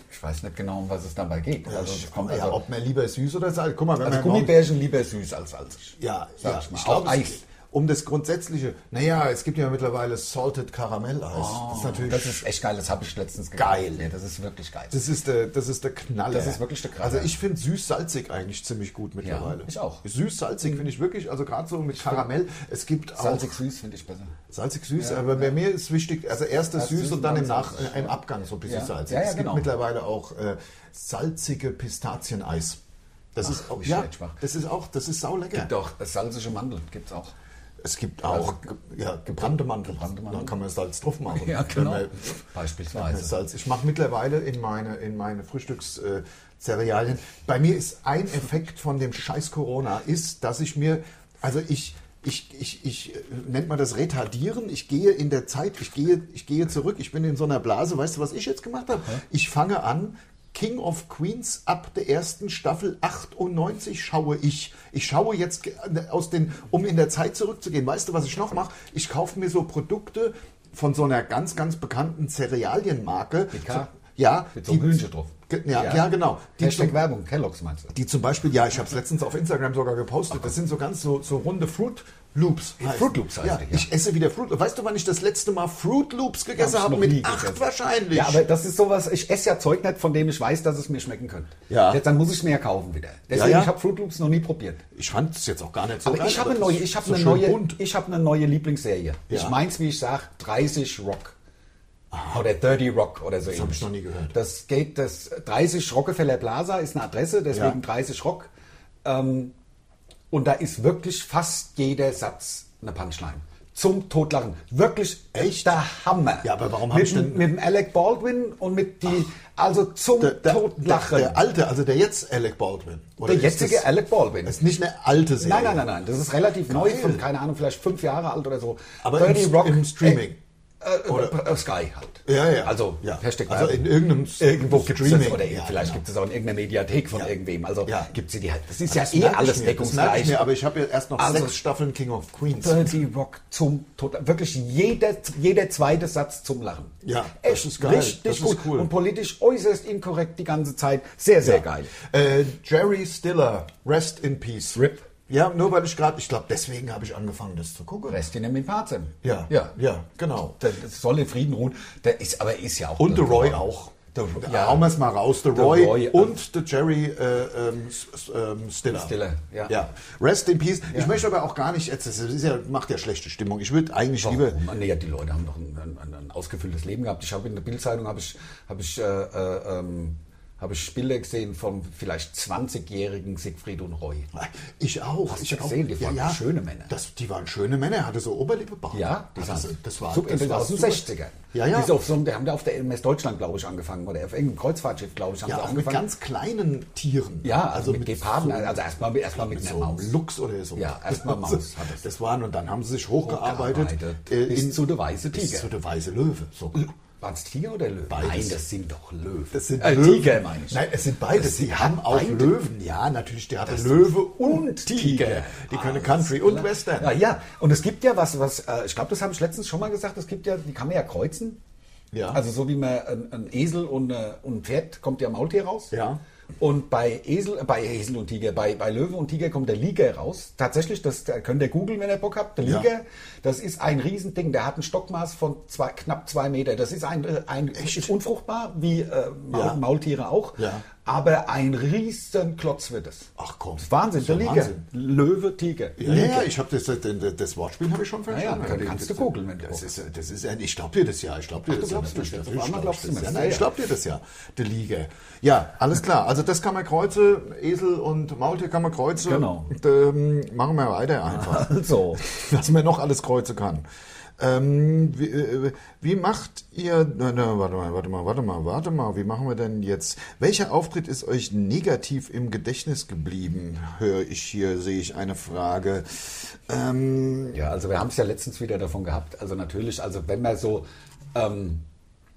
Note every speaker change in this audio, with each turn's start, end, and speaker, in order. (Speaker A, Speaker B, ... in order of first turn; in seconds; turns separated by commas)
Speaker A: 0.1-2.6, Speaker B: 1.6-4.5, Speaker A: 4.0-7.4, Speaker B: 6.0-12.4, Speaker A: 11.3-15.0, Speaker B: 13.6-14.1, Speaker B: 14.9-23.6, Speaker A: 16.3-17.3, Speaker A: 19.2-20.0, Speaker A: 23.2-24.4, Speaker B: 24.5-32.8, Speaker A: 25.0-25.5, Speaker A: 26.7-29.7, Speaker B: 33.3-35.7, Speaker A: 33.4-34.4, Speaker A: 35.5-37.3, Speaker B: 37.8-42.4, Speaker A: 38.3-38.6, Speaker A: 39.4-40.5, Speaker A: 41.3-43.3, Speaker B: 42.9-77.0, Speaker A: 73.5-73.9, Speaker A: 74.5-77.9, Speaker B: 77.9-88.5, Speaker A: 82.8-83.9, Speaker A: 86.6-94.8, Speaker B: 91.7-92.0, Speaker B: 93.3-93.7, Speaker B: 94.9-97.8, Speaker A: 96.0-101.3, Speaker B: 99.3-99.6, Speaker B: 102.1-102.4, Speaker A: 102.2-108.5, Speaker B: 103.5-104.3, Speaker B: 107.5-107.8, Speaker A: 109.0-109.5, Speaker A: 110.3-121.4, Speaker B: 115.3-115.8, Speaker B: 116.4-117.5, Speaker B: 120.2-123.9, Speaker A: 123.2-124.6, Speaker B: 124.4-125.8, Speaker A: 125.4-130.2, Speaker B: 126.7-127.2, Speaker B: 129.0-130.4, Speaker A: 130.8-140.5, Speaker B: 131.1-131.4, Speaker B: 132.2-136.0, Speaker B: 137.8-138.1, Speaker B: 138.8-142.9, Speaker A: 141.2-141.5, Speaker A: 142.6-151.9, Speaker B: 147.0-148.9, Speaker B: 151.4-158.2, Speaker A: 154.7-155.0, Speaker A: 158.1-159.7, Speaker B: 159.2-160.6, Speaker A: 160.6-164.9, Speaker B: 163.0-169.2, Speaker A: 165.5-166.4, Speaker A: 168.9-169.8, Speaker B: 169.7-174.6, Speaker A: 174.2-184.3, Speaker B: 184.3-191.9, Speaker A: 185.3-186.9, Speaker A: 188.9-196.0, Speaker B: 195.4-206.9, Speaker A: 197.4-200.1, Speaker A: 200.8-202.0, Speaker A: 203.2-205.7, Speaker A: 207.2-212.6, Speaker B: 208.1-208.6, Speaker B: 209.5-217.2, Speaker A: 213.7-221.6, Speaker B: 222.1-222.4, Speaker A: 222.3-225.9, Speaker B: 225.9-226.2, Speaker A: 226.6-246.5, Speaker B: 232.6-232.9, Speaker B: 237.8-238.1, Speaker B: 239.5-239.8, Speaker B: 240.6-240.8, Speaker B: 243.4-244.8, Speaker B: 246.0-263.8, Speaker A: 248.3-249.9, Speaker A: 251.7-253.7, Speaker A: 259.2-259.7, Speaker A: 261.3-262.2, Speaker B: 264.4-277.6, Speaker A: 277.5-281.8